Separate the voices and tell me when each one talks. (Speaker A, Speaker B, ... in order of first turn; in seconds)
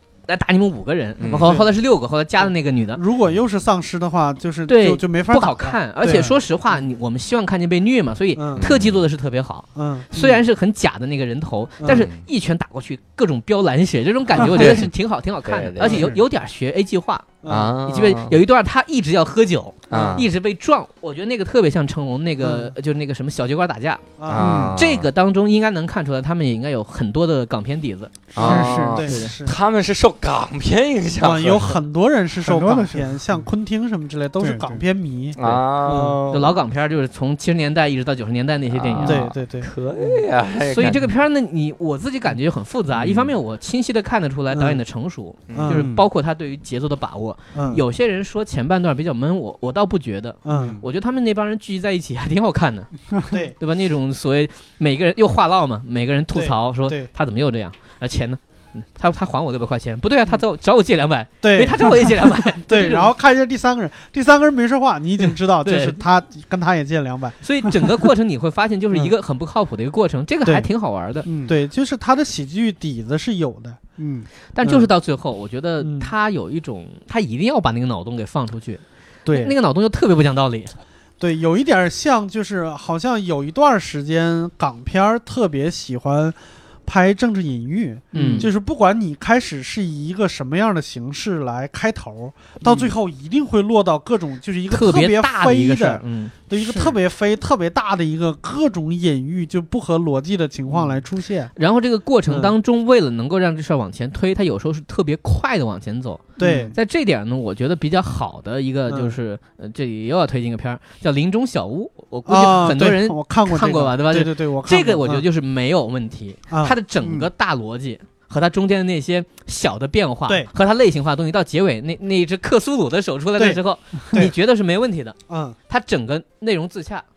Speaker A: 0.3-3.0, 4.7-24.1, 24.8-29.3, 36.3-39.2, 40.6-52.9, 53.6-63.1, 65.2-66.0, 67.4-71.3, 74.5-80.7, 88.1-88.5, 92.6-92.9, 94.7-96.4, 101.5-125.2, 125.7-127.0
Speaker B: 1.2-1.6, 8.6-9.0, 11.9-12.2, 14.5-14.9, 15.4-16.1, 17.5-18.4, 19.9-20.3, 24.3-25.1, 28.3-31.8, 35.4-36.5, 38.7-41.1, 42.9-43.3, 45.5-45.9
Speaker C: 1.3-1.7, 2.4-6.4, 8.3-8.7, 9.7-10.4, 11.8-12.1, 14.3-14.7, 17.4-17.7, 19.9-20.3, 22.4-22.7, 24.2-24.6, 28.4-29.6, 31.2-36.2, 39.0-39.7, 44.5-44.8, 45.5-45.9, 47.5-47.8, 50.5-50.8, 53.3-53.5, 56.3-57.1, 61.4-67.4, 71.4-73.8, 74.6-74.9, 75.8-76.1, 79.2-79.5, 81.2-101.5, 102.3-102.5, 106.4-106.8, 108.9-109.2, 112.3-115.2, 116.5-116.8, 125.3-125.6
Speaker D: 15.8-16.2, 24.4-24.8, 28.3-29.2, 32.4-33.4, 34.4-34.8, 35.9-36.5, 50.5-50.8, 71.2-71.5, 74.0-74.3, 88.1-88.5, 96.5-97.0, 106.4-106.7, 117.0-117.3